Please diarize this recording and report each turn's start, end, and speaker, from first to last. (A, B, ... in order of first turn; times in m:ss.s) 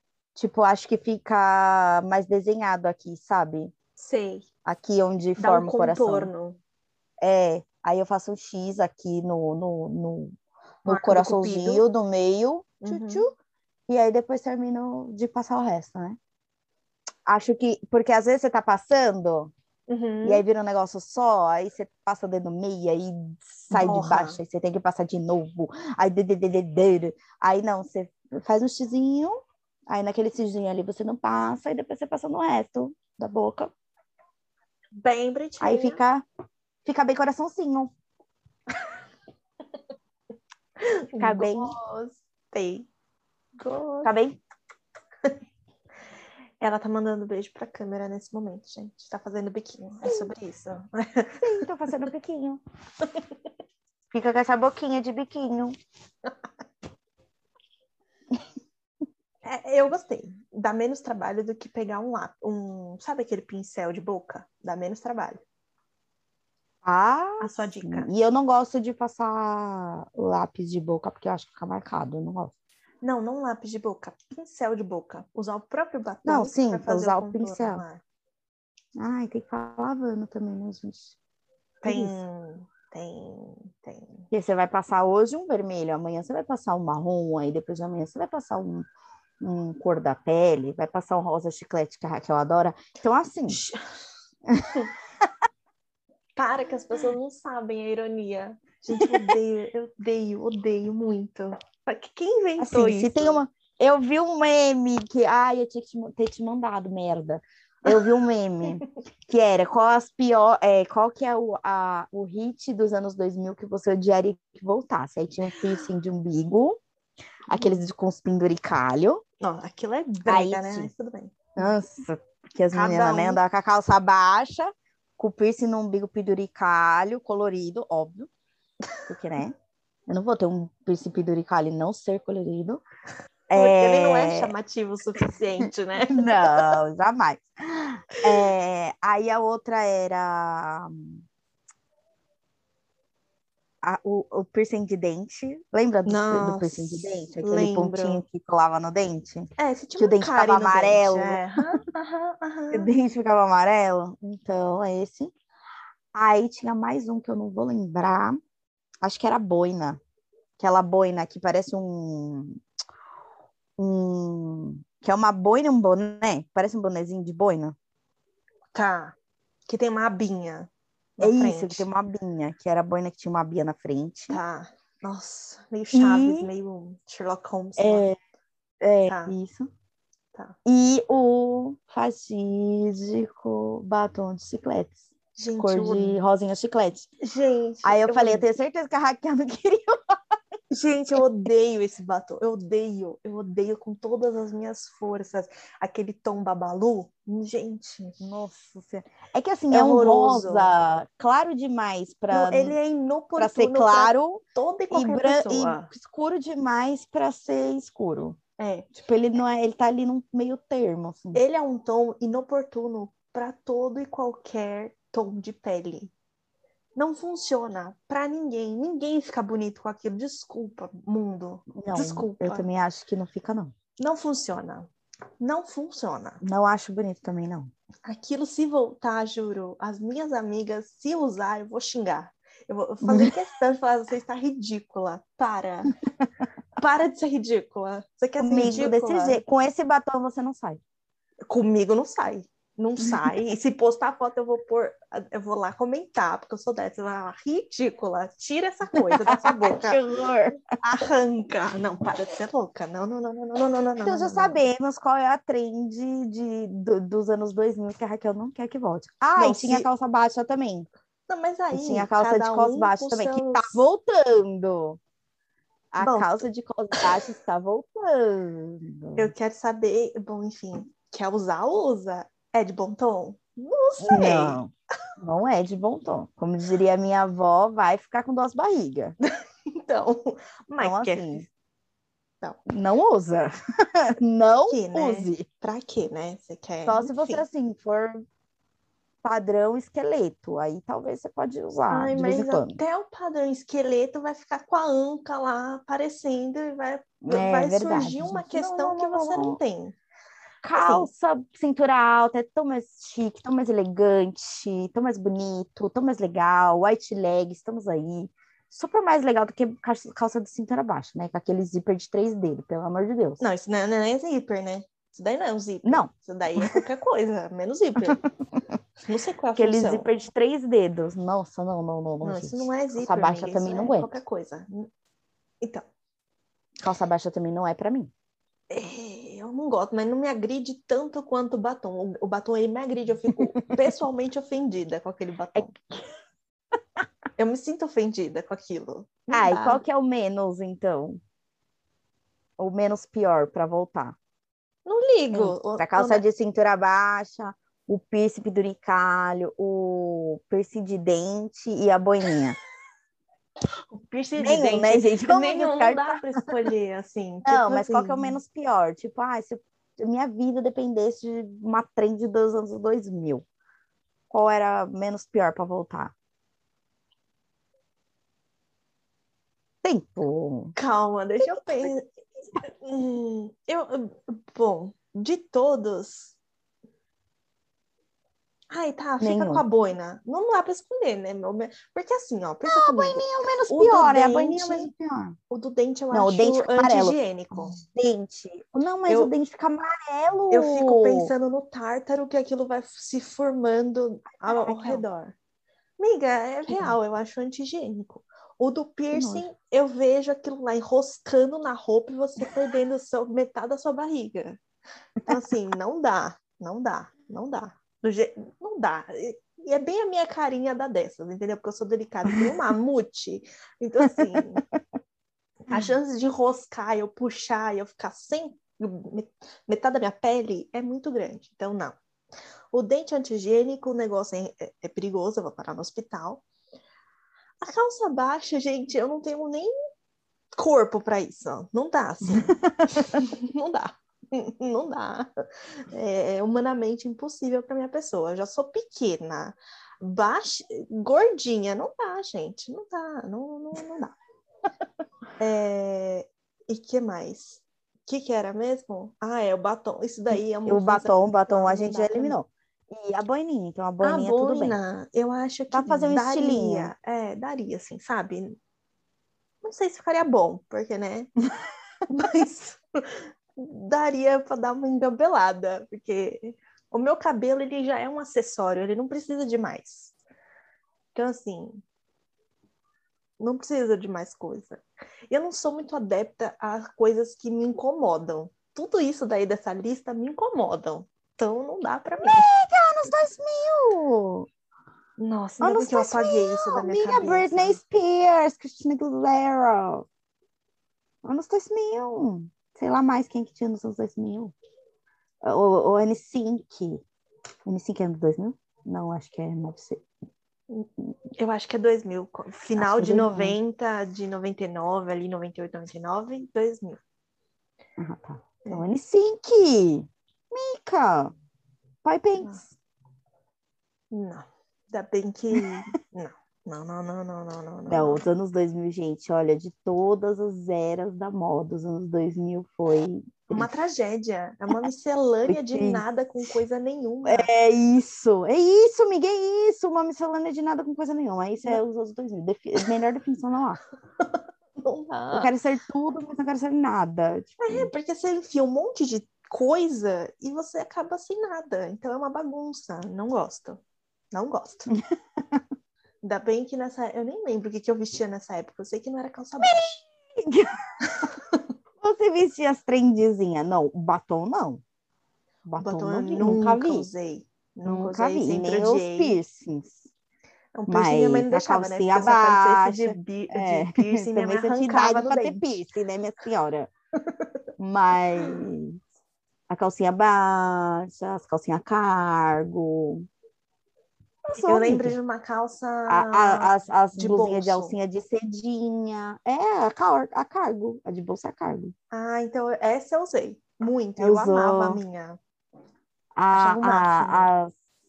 0:00.4-0:03.7 A
0:04.0-0:04.5 B
0:04.6-0:06.3 A
0:05.4-0:06.6 B
0:07.2-0:13.3 A
0:10.9-0:11.8 B
0:12.8-0:13.3 B
0:13.9-0:16.2 A
0:17.3-0:19.5 A
0:19.9-0:20.4 B
0:20.2-0:29.4 A
0:23.7-0:24.4 B
0:29.9-0:33.7 A
0:35.0-0:36.0 B
0:35.6-0:36.2 A
0:36.8-0:37.9 A
0:40.8-0:42.9 B
0:41.2-0:41.8 A
0:43.6-0:44.1 B
0:44.0-0:44.4 A
0:46.6-0:51.7 B
0:50.0-0:50.3 A
0:51.4-0:52.6 A
0:54.1-0:55.7 A
0:59.4-1:05.4 B
1:06.8-1:12.5 A
1:07.4-1:08.1 B
1:13.0-1:18.0 B
1:16.2-1:17.8 A
1:19.0-1:21.2 A
1:21.8-1:24.3 B
1:21.8-1:22.2 A
1:24.3-1:28.9 A
1:29.4-1:33.6 A
1:33.5-1:33.8 B
1:34.5-1:35.3 A
1:36.4-1:43.4 B
1:39.0-1:39.3 A
1:42.6-1:56.8 A
1:57.5-1:59.2 A
1:59.4-2:01.6 B
2:00.3-2:00.9 A
2:01.6-2:08.3 A
2:02.7-2:03.4 B
2:09.1-2:09.6 A
2:10.1-2:12.8 A
2:13.5-2:14.5 A
2:13.5-2:16.8 B
2:16.1-2:21.2 A
2:23.8-2:31.8 A
2:26.1-2:28.2 B
2:29.6-2:32.9 B
2:32.7-2:35.3 A
2:36.1-2:38.4 A
2:39.0-2:40.0 A
2:40.6-2:42.6 A
2:43.8-2:47.8 A
2:48.7-2:49.2 B
2:49.7-2:51.9 B
2:51.2-2:54.4 A
2:54.3-2:58.1 B
2:55.9-2:56.5 A
2:57.8-2:58.2 A
2:58.8-2:59.7 A
2:59.1-2:59.4 B
3:00.6-3:05.0 A
3:05.4-3:06.2 B
3:05.6-3:07.1 A
3:07.2-3:08.5 B
3:07.8-3:10.2 A
3:10.7-3:18.2 B
3:18.2-3:22.8 A
3:19.7-3:20.7 B
3:22.3-3:25.9 B
3:23.4-3:28.4 A
3:28.6-3:28.9 B
3:29.0-3:31.4 A
3:31.3-3:36.1 B
3:37.0-3:42.7 B
3:41.8-3:43.7 A
3:44.0-3:44.9 B
3:45.4-3:46.4 B
3:46.4-3:47.7 A
3:48.0-3:55.9 B
3:53.0-3:53.3 A
3:56.8-3:59.4 B
3:58.4-4:00.8 A
4:01.5-4:10.0 B
4:09.2-4:10.7 A
4:10.8-4:14.6 B
4:14.0-4:20.9 A
4:19.4-4:19.9 B
4:21.3-4:23.9 B
4:21.7-4:25.0 A
4:25.9-4:29.3 A
4:26.0-4:26.4 B
4:29.2-4:34.6 B
4:34.0-4:39.2 A
4:39.9-4:41.5 B
4:40.8-4:41.5 A
4:42.7-4:45.4 A
4:44.7-4:47.4 B
4:46.8-4:48.2 A
4:49.2-4:52.8 A
4:51.9-5:00.0 B
4:57.2-4:59.6 A
5:00.6-5:13.4 A
5:00.7-5:01.1 B
5:13.4-5:18.2 B
5:15.8-5:16.8 A
5:19.0-5:20.1 B
5:19.6-5:24.1 A
5:22.2-5:24.9 B
5:26.8-5:28.1 A
5:28.7-5:35.7 B
5:33.4-5:33.7 A
5:35.6-5:36.0 A
5:37.4-5:39.8 B
5:39.3-5:41.2 A
5:42.6-5:44.2 A
5:44.9-5:46.2 B
5:45.3-5:52.6 A
5:53.9-5:58.4 B
5:54.4-5:56.2 A
5:57.4-6:03.4 A
6:04.3-6:06.1 A
6:09.8-6:10.7 A
6:10.8-6:12.1 B
6:11.4-6:11.9 A
6:12.6-6:16.4 B
6:18.7-6:24.9 B
6:19.2-6:19.6 A
6:22.6-6:25.4 A
6:25.5-6:27.8 B
6:26.1-6:31.3 A
6:29.1-6:29.3 B
6:30.5-6:35.4 B
6:34.4-6:35.0 A
6:36.0-6:44.6 B
6:36.7-6:37.0 A
6:39.1-6:39.5 A
6:45.2-6:54.6 B
6:55.7-7:02.0 B
7:02.7-7:06.4 B
7:07.6-7:09.7 B
7:10.6-7:15.3 B
7:12.3-7:13.2 A
7:15.9-7:24.1 B
7:25.4-7:32.4 B
7:30.3-7:34.8 A
7:34.0-7:38.6 B
7:35.7-7:36.9 A
7:39.6-7:41.3 B
7:42.1-7:42.8 B
7:43.6-7:50.2 B
7:51.2-7:51.8 B
7:53.4-8:02.5 B
8:02.2-8:04.5 A
8:05.2-8:07.8 B
8:05.6-8:10.1 A
8:11.2-8:14.5 A
8:15.4-8:17.0 A
8:17.7-8:20.0 A
8:20.7-8:27.0 B
8:22.8-8:23.6 A
8:28.0-8:31.3 A
8:32.0-8:32.7 A
8:34.1-8:38.3 B
8:37.9-8:43.7 A
8:43.5-8:47.5 B
8:45.5-8:46.5 A
8:47.2-8:53.8 A
8:54.8-8:55.5 B
8:55.3-8:57.9 A
8:57.6-9:03.8 B
9:04.3-9:05.0 B
9:06.2-9:10.0 B
9:09.6-9:10.7 A
9:11.2-9:11.6 B
9:12.0-9:14.8 A
9:15.7-9:17.1 A
9:15.8-9:19.4 B
9:17.8-9:20.1 A
9:20.8-9:25.8 B
9:20.9-9:26.9 A
9:27.8-9:29.0 A
9:29.7-9:33.3 A
9:34.5-9:35.2 A
9:34.6-9:38.0 B
9:36.1-9:41.9 A
9:42.1-9:45.4 B
9:44.2-9:45.0 A
9:46.4-9:47.7 A
9:46.5-9:47.5 B